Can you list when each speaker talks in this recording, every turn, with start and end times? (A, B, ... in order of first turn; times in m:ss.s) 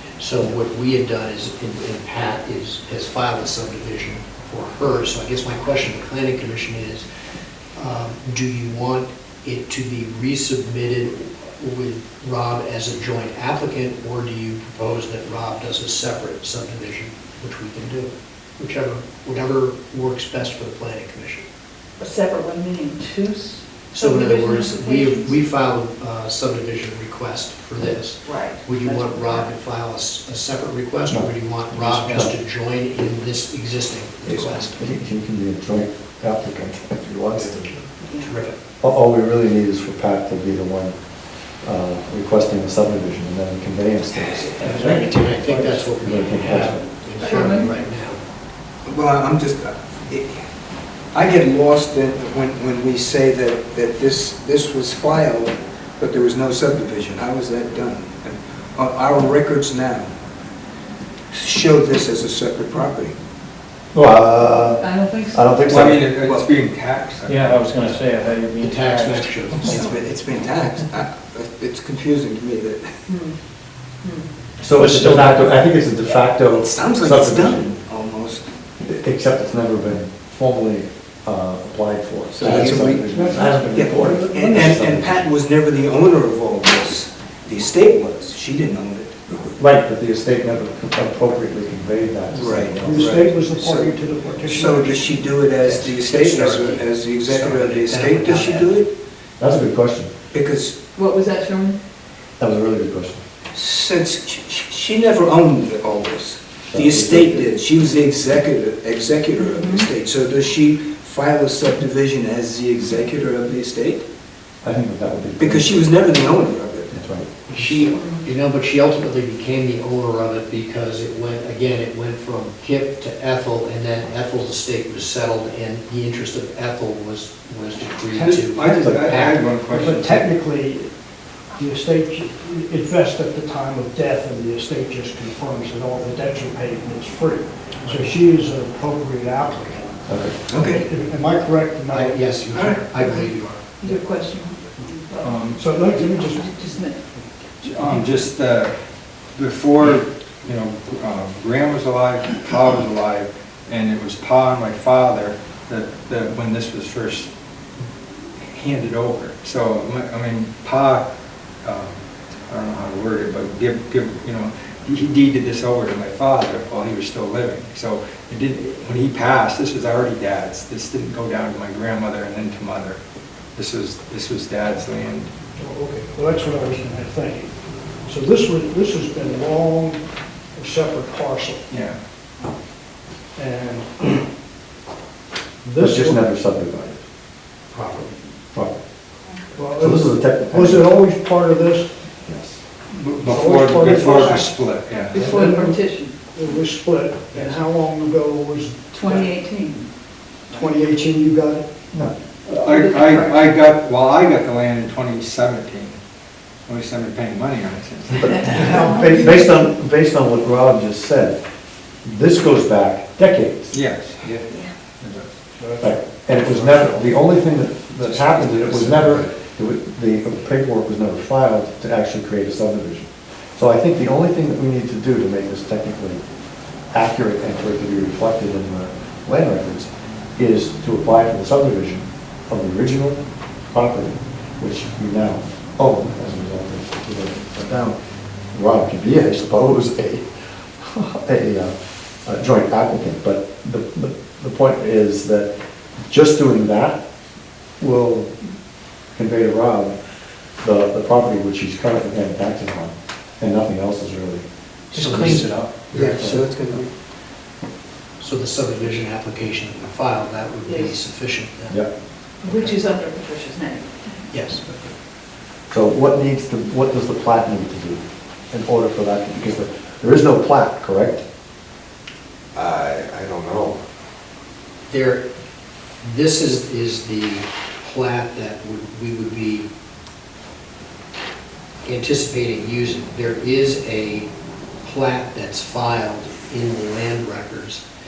0:00.2-0:07.0 A
0:07.8-0:21.4 A
0:22.0-0:25.4 B
0:23.9-0:34.8 A
0:28.2-0:29.5 B
0:31.1-0:32.3 C
0:34.2-0:34.6 D
0:34.6-0:37.8 C
0:38.0-0:38.4 B
0:38.2-0:38.6 A
0:38.8-0:41.0 C
0:41.6-0:45.2 C
0:44.6-0:48.2 A
0:45.7-0:46.8 C
0:47.2-0:47.7 B
0:48.8-0:50.4 D
0:51.1-1:00.1 D
1:01.3-1:03.2 D
1:03.9-1:06.0 C
1:04.8-1:05.8 B
1:05.7-1:08.0 E
1:06.2-1:06.5 D
1:07.2-1:09.6 F
1:08.6-1:10.0 A
1:09.6-1:13.0 D
1:13.1-1:13.4 B
1:14.6-1:17.7 C
1:14.7-1:15.5 F
1:16.6-1:18.4 D
1:18.8-1:25.2 C
1:22.3-1:29.6 D
1:23.1-1:24.7 G
1:29.6-1:33.4 C
1:32.3-1:33.9 D
1:32.8-1:35.2 G
1:34.5-1:38.9 D
1:35.6-1:38.8 A
1:39.4-1:40.1 C
1:40.3-1:40.8 D
1:41.0-1:41.8 B
1:42.4-1:43.2 C
1:43.5-1:54.0 D
1:46.7-1:47.5 C
1:49.4-1:49.9 B
1:54.6-1:55.9 C
1:55.4-1:57.9 D
1:56.9-1:57.3 C
1:57.5-2:09.6 A
1:57.9-1:58.3 B
2:08.1-2:10.3 E
2:09.7-2:10.9 G
2:11.5-2:20.1 G
2:20.1-2:20.6 C
2:20.5-2:20.8 D
2:20.8-2:22.3 G
2:21.9-2:23.8 A
2:22.5-2:23.2 D
2:23.8-2:27.0 B
2:25.2-2:25.6 E
2:25.6-2:26.5 G
2:27.6-2:28.8 E
2:29.3-2:37.3 E
2:38.4-2:41.0 E
2:41.6-2:53.0 E
2:53.6-2:55.3 E
2:55.5-3:01.6 G
3:01.7-3:02.0 E
3:03.3-3:04.3 G
3:05.6-3:06.2 G
3:05.8-3:07.0 C
3:09.6-3:11.9 G
3:09.8-3:10.9 C
3:12.2-3:12.6 C
3:12.9-3:15.2 E
3:13.2-3:14.5 G
3:14.0-3:14.3 B
3:15.1-3:16.2 B
3:15.4-3:15.8 G
3:16.3-3:19.4 G
3:17.3-3:17.6 E
3:18.9-3:19.9 B
3:20.5-3:21.7 G
3:22.4-3:26.0 E
3:22.6-3:23.5 B
3:26.7-3:28.6 E
3:28.2-3:31.4 C
3:28.4-3:29.6 B
3:32.0-3:33.8 C
3:33.7-3:34.4 E
3:34.5-3:34.7 B
3:35.0-3:35.3 E
3:35.6-3:37.0 G
3:35.8-3:46.2 C
3:46.9-3:58.0 C
3:58.5-4:00.2 C
4:00.8-4:05.5 C
4:06.1-4:07.0 C
4:07.8-4:08.4 C
4:09.1-4:10.0 C
4:10.6-4:16.4 C
4:14.9-4:16.2 A
4:15.9-4:16.9 D
4:18.2-4:21.8 A
4:20.6-4:21.0 B
4:22.4-4:24.3 B
4:22.4-4:22.8 A
4:24.3-4:24.9 A
4:25.7-4:31.2 C
4:32.7-4:33.7 G
4:34.9-4:35.2 A
4:36.0-4:39.7 A
4:41.8-4:44.3 A
4:44.8-4:47.8 A